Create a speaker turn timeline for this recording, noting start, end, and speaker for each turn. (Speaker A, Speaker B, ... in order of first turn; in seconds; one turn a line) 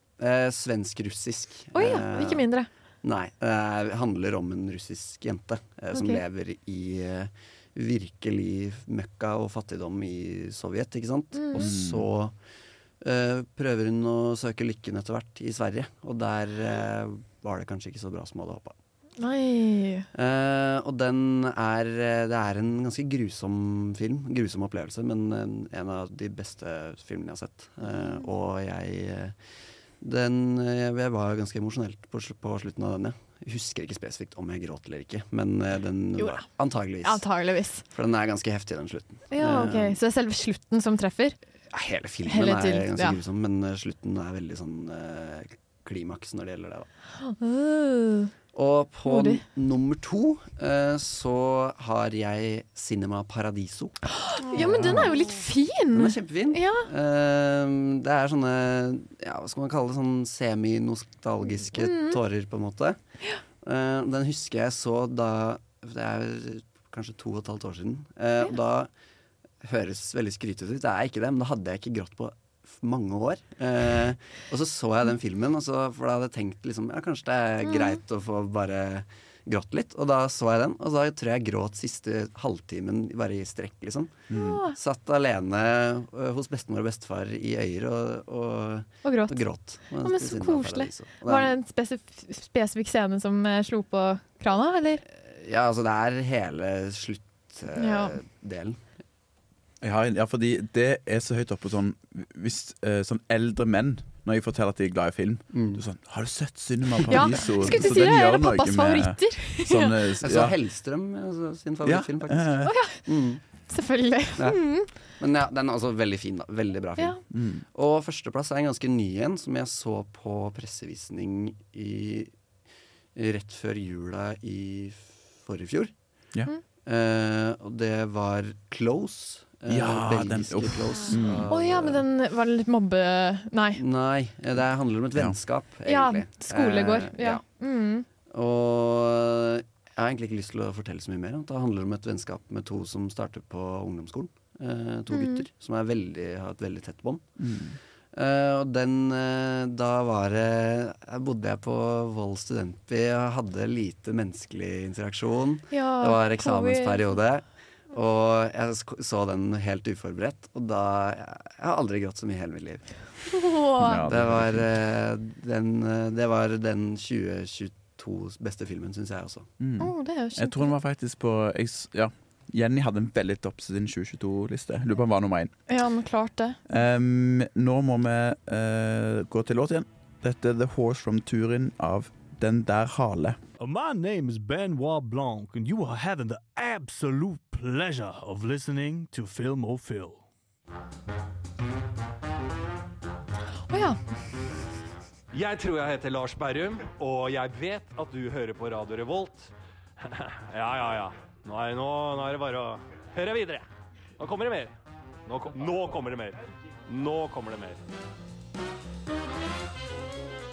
Speaker A: 0.2-2.5
Speaker B: 1.7-2.7
Speaker A: 3.0-12.3
Speaker B: 5.9-6.2
Speaker B: 11.3-11.7
Speaker C: 11.6-12.1
Speaker A: 13.0-18.8
Speaker B: 19.2-20.1
Speaker A: 20.1-29.4
Speaker A: 30.0-37.2
Speaker B: 36.2-36.5
Speaker B: 37.0-37.9
Speaker A: 37.9-40.0
Speaker B: 39.3-41.4
Speaker A: 41.7-46.9
Speaker B: 42.3-43.2
Speaker B: 47.2-48.3
Speaker A: 48.5-54.0
Speaker B: 49.1-49.4
Speaker B: 54.1-56.9
Speaker A: 54.5-55.1
Speaker A: 55.9-63.0
Speaker B: 61.8-62.2
Speaker A: 63.6-68.9
Speaker A: 69.6-91.5
Speaker B: 77.7-78.0
Speaker C: 84.3-84.6
Speaker B: 84.3-84.8
Speaker B: 89.0-89.4
Speaker B: 90.0-95.0
Speaker A: 95.1-98.8
Speaker B: 97.8-98.2
Speaker C: 99.8-110.5
Speaker A: 105.5-105.8
Speaker B: 107.1-110.0
Speaker A: 107.2-107.8
Speaker A: 110.2-113.4
Speaker C: 111.8-112.7
Speaker B: 112.6-113.1
Speaker B: 113.7-114.9
Speaker A: 114.4-114.6
Speaker A: 115.2-117.2
Speaker C: 117.3-117.7
Speaker A: 117.7-122.3
Speaker A: 123.2-125.9
Speaker A: 126.8-132.0
Speaker C: 129.7-131.5
Speaker B: 131.5-133.8
Speaker A: 133.8-137.4
Speaker B: 135.9-138.1
Speaker A: 138.3-147.4
Speaker B: 145.1-145.4
Speaker C: 147.4-147.8
Speaker A: 148.1-162.9
Speaker B: 155.7-157.2
Speaker B: 163.3-164.0
Speaker C: 163.8-164.7
Speaker A: 164.1-169.5
Speaker C: 169.6-175.5
Speaker B: 169.8-170.8
Speaker B: 175.7-176.6
Speaker C: 176.7-183.4
Speaker D: 183.6-190.2
Speaker B: 193.7-194.0
Speaker E: 195.3-203.7
Speaker E: 204.2-204.7
Speaker E: 205.3-207.8